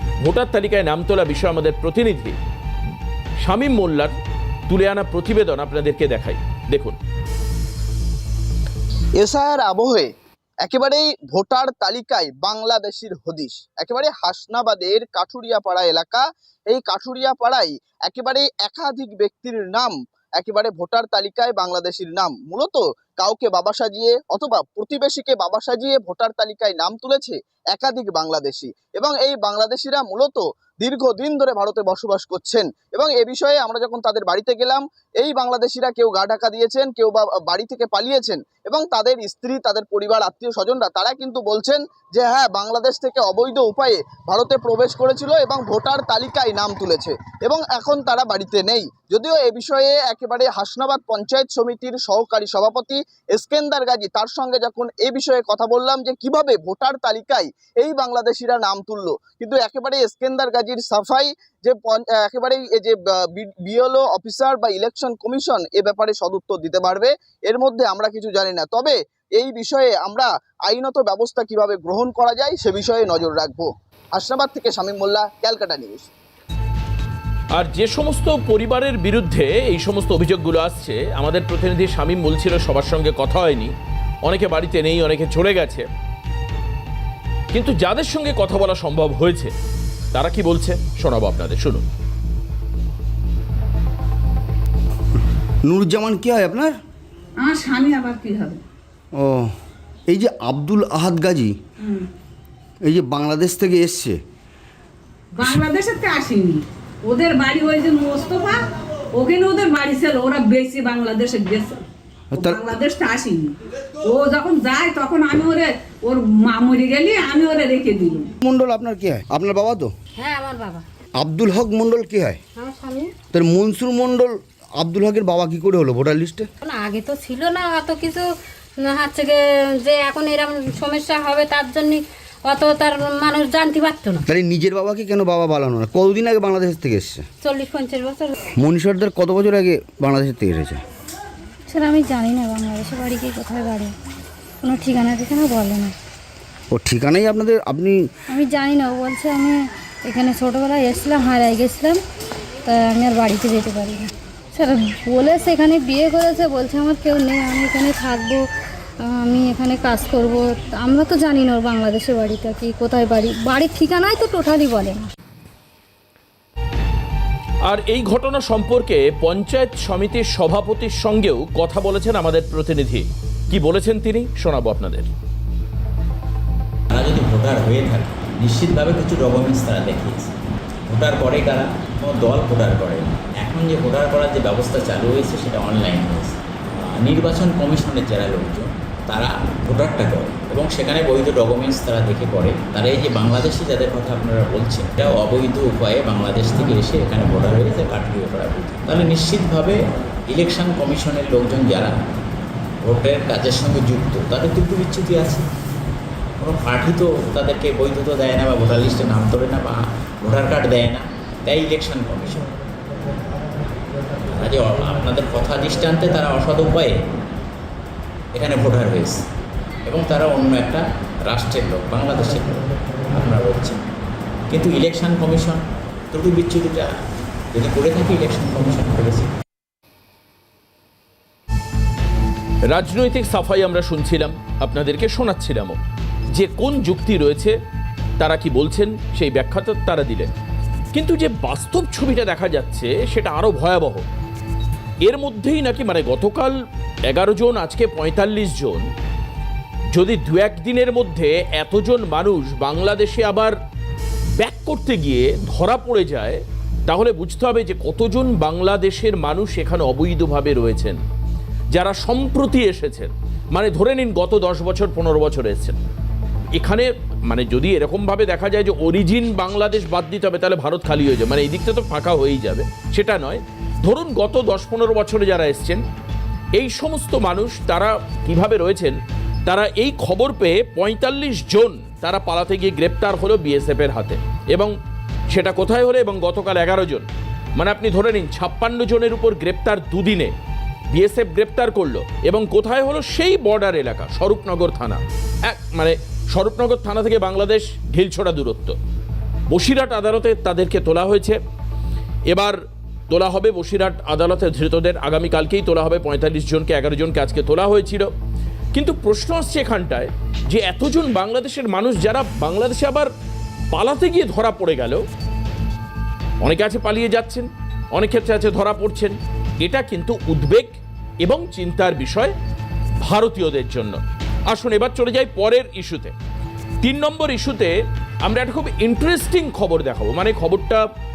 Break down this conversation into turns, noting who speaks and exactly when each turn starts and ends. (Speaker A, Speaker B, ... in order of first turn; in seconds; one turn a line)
Speaker A: 0.2-2.4
Speaker A: 3.4-4.2
Speaker A: 4.7-7.0
Speaker B: 9.2-10.1
Speaker B: 10.6-76.1
Speaker A: 77.5-83.7
Speaker A: 84.2-85.8
Speaker A: 87.5-89.5
Speaker A: 90.1-91.8
Speaker C: 95.6-96.7
Speaker D: 97.4-98.6
Speaker C: 99.1-99.5
Speaker C: 100.1-101.5
Speaker C: 102.8-104.2
Speaker D: 105.3-108.6
Speaker D: 109.2-111.8
Speaker C: 112.3-112.6
Speaker D: 112.4-113.5
Speaker D: 114.1-118.3
Speaker C: 118.4-119.9
Speaker E: 120.2-120.8
Speaker C: 121.2-122.4
Speaker E: 122.5-123.1
Speaker C: 123.3-126.5
Speaker E: 126.6-128.3
Speaker E: 128.8-134.2
Speaker C: 134.3-137.2
Speaker E: 137.4-138.3
Speaker C: 138.6-140.8
Speaker E: 141.7-143.9
Speaker E: 144.6-145.9
Speaker C: 146.7-148.1
Speaker E: 148.3-152.0
Speaker E: 152.7-158.4
Speaker E: 159.0-165.1
Speaker A: 167.7-175.1
Speaker F: 176.9-180.3
Speaker F: 180.9-202.0
Speaker F: 202.8-205.5
Speaker F: 206.4-212.5
Speaker F: 214.3-216.9
Speaker F: 218.3-219.2
Speaker F: 219.8-223.8
Speaker F: 224.5-226.9
Speaker F: 227.5-229.3
Speaker A: 232.7-235.8
Speaker A: 236.3-237.5
Speaker A: 238.2-240.3
Speaker A: 240.9-244.1
Speaker A: 245.0-246.5
Speaker A: 247.1-248.8
Speaker A: 249.9-253.6
Speaker A: 254.4-261.0
Speaker A: 261.7-265.8
Speaker A: 266.6-275.8
Speaker A: 276.6-284.7
Speaker A: 285.3-290.3
Speaker A: 290.9-298.8
Speaker A: 299.5-301.4
Speaker A: 302.3-302.6
Speaker A: 303.1-308.1
Speaker A: 308.7-313.1
Speaker A: 313.7-315.0
Speaker A: 316.4-322.3
Speaker A: 323.0-324.0
Speaker A: 324.5-326.1
Speaker A: 326.8-327.7
Speaker A: 328.2-330.8